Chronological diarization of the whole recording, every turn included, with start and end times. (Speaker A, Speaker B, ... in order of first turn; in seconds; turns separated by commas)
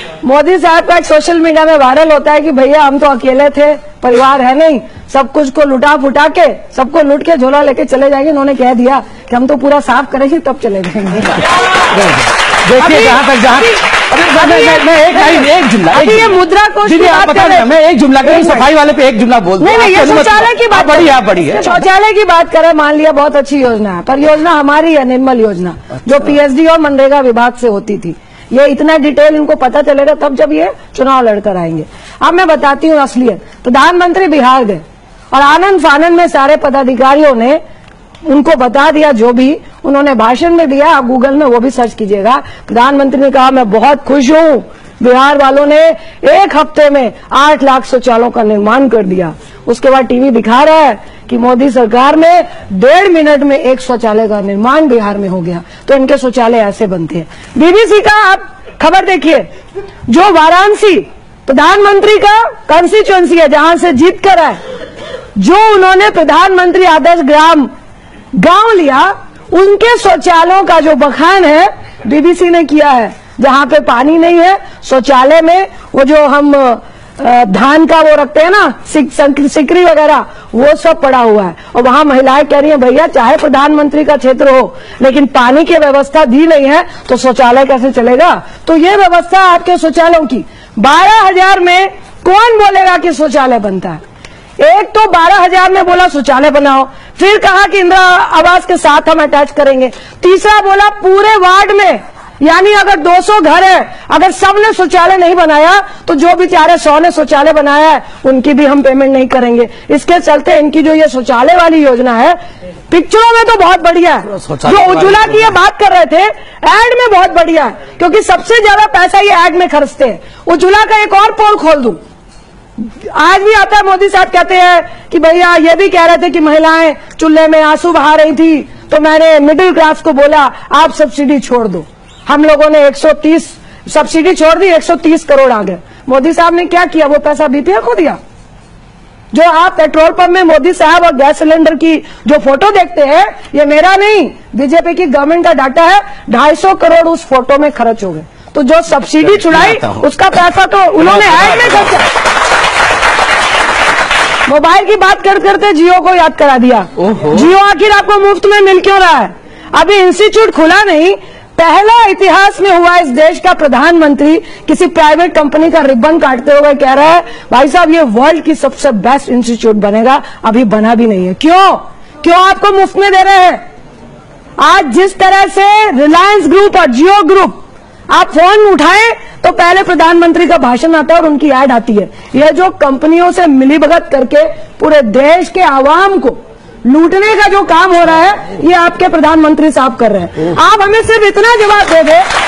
Speaker A: 0.2-11.5, Speaker B: 11.9-21.8, Speaker A: 12.8-17.7, Speaker A: 18.2-18.6, Speaker A: 19.6-37.6, Speaker A: 38.3-59.5, Speaker A: 60.1-64.6, Speaker A: 65.3-67.7, Speaker A: 68.3-94.0, Speaker A: 94.6-112.4, Speaker A: 112.9-122.0, Speaker B: 114.3-115.5, Speaker A: 122.8-138.2, Speaker A: 139.3-152.1, Speaker B: 149.2-150.1, Speaker B: 151.2-152.0, Speaker A: 154.4-173.6, Speaker B: 157.0-157.4, Speaker A: 174.6-177.6, Speaker A: 178.1-192.3